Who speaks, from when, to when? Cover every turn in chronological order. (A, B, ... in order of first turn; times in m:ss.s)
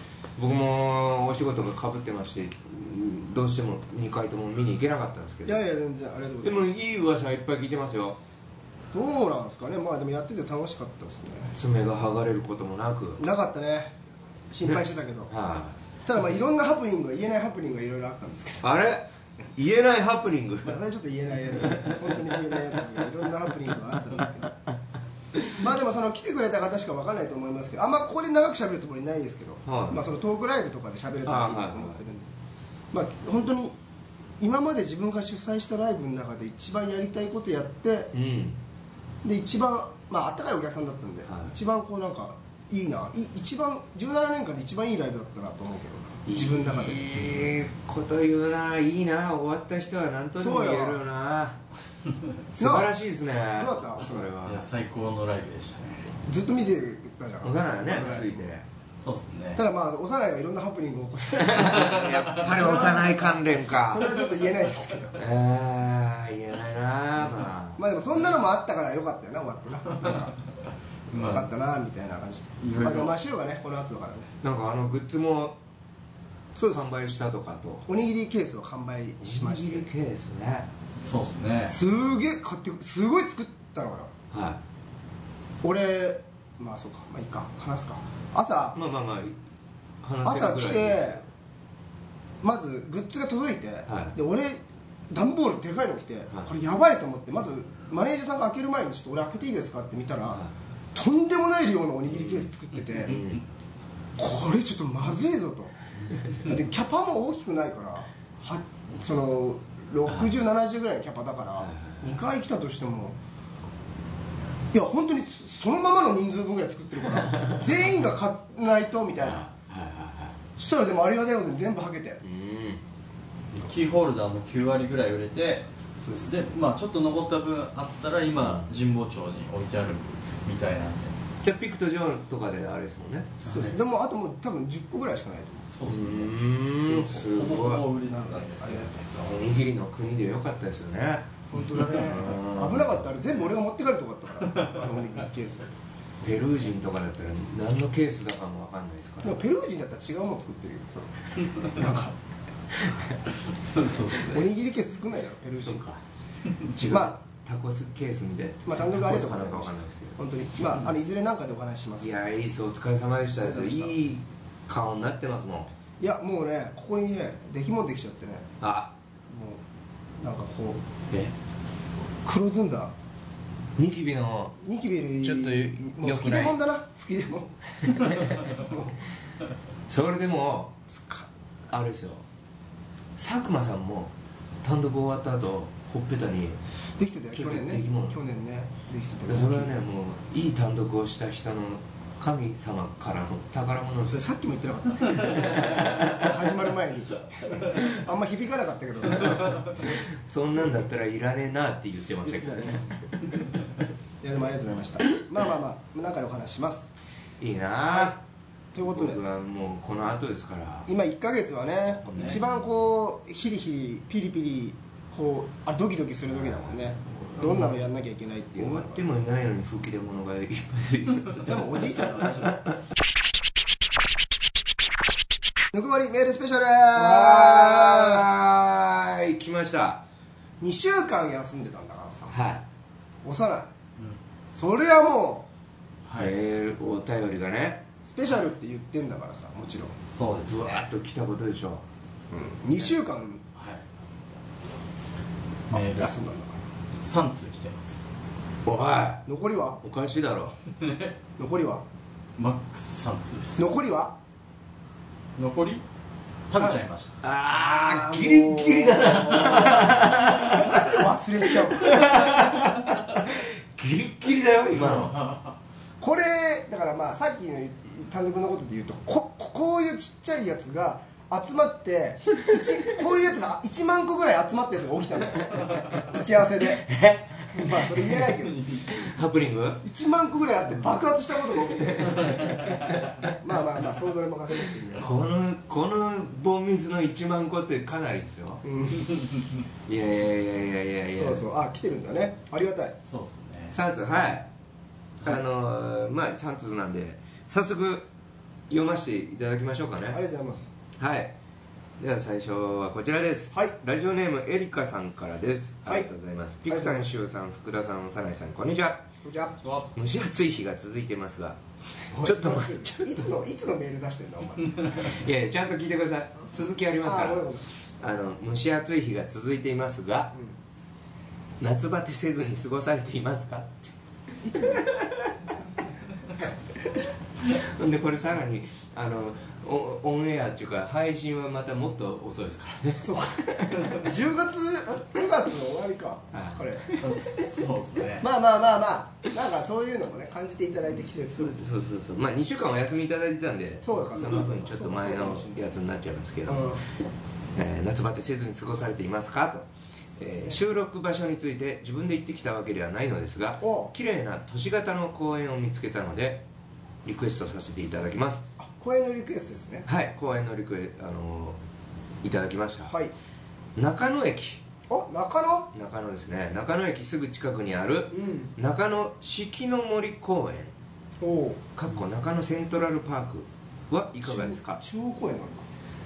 0:00.4-0:05.6 A
0:05.4-0:06.7 B
0:06.4-0:08.2 A
0:08.9-0:11.6 B
0:11.6-0:13.2 A
0:13.2-0:14.0 B
0:14.5-0:15.3 B
0:14.6-0:15.8 A
0:16.0-0:18.6 B
0:18.6-0:20.8 A
0:20.6-0:24.5 B
0:21.6-0:22.4 A
0:25.5-0:32.3 B
0:29.6-0:30.0 A
0:31.2-0:32.0 A
0:32.9-0:33.7 B
0:34.4-0:38.1 B
0:38.1-0:38.6 A
0:39.2-0:47.2 B
0:41.3-0:41.5 A
0:46.3-0:51.6 A
0:50.4-0:51.0 B
0:52.5-0:54.7 A
0:52.6-0:52.9 B
0:53.5-0:54.3 B
0:54.4-0:56.1 C
0:56.2-0:58.5 B
0:57.4-0:58.6 A
0:59.0-0:59.6 C
0:59.6-1:05.2 B
1:01.4-1:04.2 A
1:02.0-1:03.1 C
1:05.2-1:07.8 A
1:07.8-1:10.4 B
1:11.1-1:14.3 B
1:11.1-1:11.5 C
1:12.6-1:13.2 C
1:14.4-1:15.6 A
1:16.6-1:16.9 B
1:16.7-1:17.8 A
1:17.8-1:19.9 B
1:19.2-1:20.7 A
1:21.0-1:21.8 C
1:21.7-1:24.1 B
1:24.3-1:24.6 A
1:25.6-1:28.8 B
1:28.7-1:29.4 A
1:30.0-1:31.2 A
1:30.2-1:31.2 B
1:32.4-1:43.2 B
1:33.8-1:34.1 A
1:42.1-1:43.4 A
1:43.1-1:43.4 C
1:44.2-1:45.7 B
1:46.3-1:53.2 B
1:51.6-1:52.0 A
1:54.7-1:59.5 B
1:57.2-1:57.8 A
1:59.2-2:00.4 A
2:00.6-2:02.2 B
2:02.2-2:02.8 A
2:03.6-2:05.7 C
2:06.0-2:06.4 B
2:06.2-2:11.3 C
2:08.4-2:08.6 A
2:11.4-2:13.3 A
2:13.4-2:13.8 C
2:13.4-2:15.7 B
2:15.7-2:18.9 C
2:15.8-2:17.8 A
2:18.0-2:19.2 B
2:19.0-2:23.0 A
2:21.5-2:25.7 B
2:26.2-2:29.4 A
2:29.2-2:32.1 B
2:32.9-2:33.2 A
2:33.6-2:34.4 C
2:34.2-2:35.9 B
2:35.6-2:36.0 A
2:36.6-2:40.2 A
2:36.9-2:37.2 B
2:38.6-2:42.1 B
2:42.0-2:45.7 A
2:43.4-2:43.9 B
2:46.0-2:48.5 B
2:48.6-2:48.9 A
2:49.3-2:49.6 B
2:50.2-2:50.8 B
2:52.2-2:52.9 B
2:53.8-2:54.6 A
2:54.6-2:57.5 B
2:55.2-2:56.6 A
2:57.8-2:58.5 A
2:58.4-2:59.0 B
2:59.9-3:00.8 A
3:00.9-3:01.3 B
3:01.7-3:02.2 A
3:03.2-3:04.1 A
3:04.6-3:06.6 A
3:07.0-3:09.7 B
3:07.3-3:08.2 A
3:09.3-3:14.3 A
3:14.1-3:19.8 B
3:15.1-3:16.3 A
3:19.7-3:23.4 A
3:22.2-3:22.9 B
3:24.2-3:26.9 B
3:27.4-3:28.2 A
3:28.7-3:29.2 B
3:28.8-3:30.9 A
3:30.9-3:39.0 B
3:32.1-3:32.4 A
3:32.1-3:32.4 C
3:37.4-3:37.8 A
3:38.6-3:42.6 A
3:41.4-3:42.6 B
3:45.7-3:48.2 B
3:46.9-3:50.0 A
3:50.6-3:52.3 B
3:52.3-3:52.6 A
3:53.2-3:53.7 B
3:54.5-3:55.5 B
3:56.0-3:56.4 C
3:56.2-3:57.8 A
3:58.0-4:00.0 B
4:00.1-4:00.9 C
4:00.5-4:01.8 A
4:02.3-4:03.4 B
4:03.6-4:03.9 C
4:05.7-4:06.2 C
4:05.7-4:06.6 B
4:07.0-4:08.0 C
4:08.6-4:09.2 A
4:09.2-4:09.8 B
4:09.8-4:10.6 A
4:10.8-4:11.1 C
4:11.4-4:11.8 B
4:12.4-4:13.7 C
4:13.6-4:14.2 B
4:15.4-4:15.8 C
4:16.5-4:17.2 C
4:17.2-4:21.0 A
4:17.5-4:22.6 B
4:21.6-4:25.2 A
4:24.8-4:25.5 C
4:26.0-4:36.9 B
4:36.7-4:38.3 A
4:37.5-4:38.8 B
4:38.9-4:39.8 A
4:39.8-4:42.6 B
4:41.6-4:43.3 A
4:43.4-4:45.1 B
4:44.9-4:48.6 A
4:48.6-4:49.2 B
4:49.9-4:51.4 A
4:51.1-4:53.0 B
4:53.0-4:53.8 C
4:53.7-4:54.5 A
4:55.2-4:58.1 A
4:58.7-5:00.2 A
5:00.1-5:00.7 B
5:01.0-5:01.3 A
5:02.0-5:09.0 A
5:06.6-5:07.1 B
5:09.2-5:09.6 B
5:09.6-5:09.9 C
5:09.9-5:11.6 A
5:12.1-5:15.1 B
5:12.2-5:13.2 A
5:14.9-5:17.5 A
5:17.0-5:17.6 B
5:18.0-5:20.3 A
5:21.6-5:23.9 A
5:24.4-5:24.9 B
5:24.6-5:25.3 A
5:27.4-5:34.1 A
5:33.0-5:37.3 B
5:36.3-5:37.5 A
5:37.1-5:38.2 C
5:38.2-5:41.6 B
5:41.0-5:46.8 A
5:43.8-5:45.6 B
5:46.5-5:46.8 B
5:47.5-5:49.7 A
5:50.1-5:50.6 B
5:50.2-5:56.4 A
5:53.6-5:53.9 B
5:57.0-5:58.4 A
5:58.6-5:59.8 B
5:59.8-6:01.6 A
6:02.2-6:02.9 A
6:02.8-6:03.1 B
6:03.8-6:04.6 A
6:04.9-6:05.7 B
6:05.7-6:10.7 A
6:08.1-6:08.5 B
6:11.2-6:11.6 B
6:11.8-6:14.8 A
6:14.2-6:15.6 B